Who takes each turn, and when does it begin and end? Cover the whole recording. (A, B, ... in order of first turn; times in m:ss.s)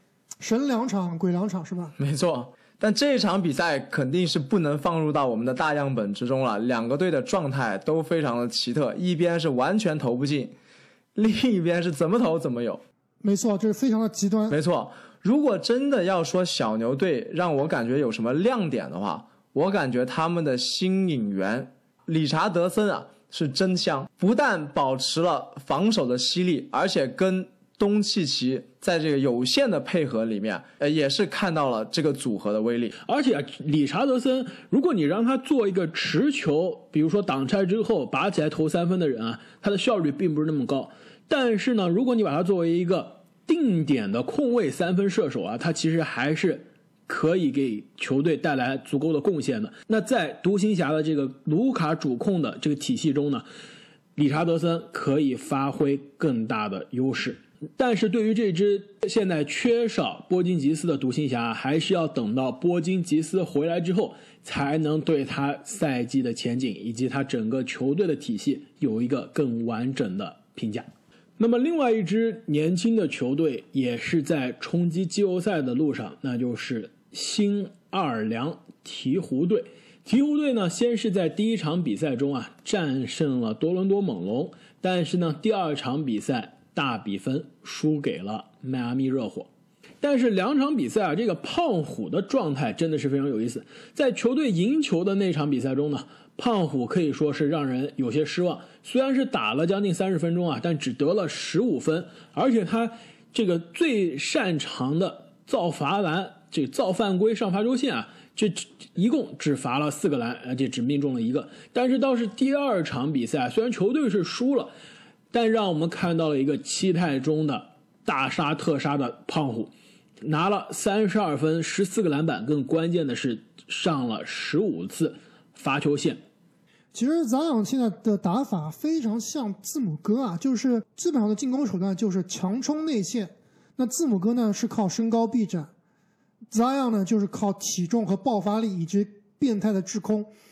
0:00.4-0:02.0 A
0:02.0-0:10.5 B
0:11.2-0:12.8 B
0:13.2-0:14.6 A
0:14.5-0:33.0 B
0:33.1-0:53.5 C
0:54.2-1:10.9 C
1:11.4-1:29.5 C
1:30.0-1:54.7 C
1:55.3-1:59.7 C
2:00.2-2:06.2 C
2:06.9-2:15.7 A
2:16.5-2:20.3 A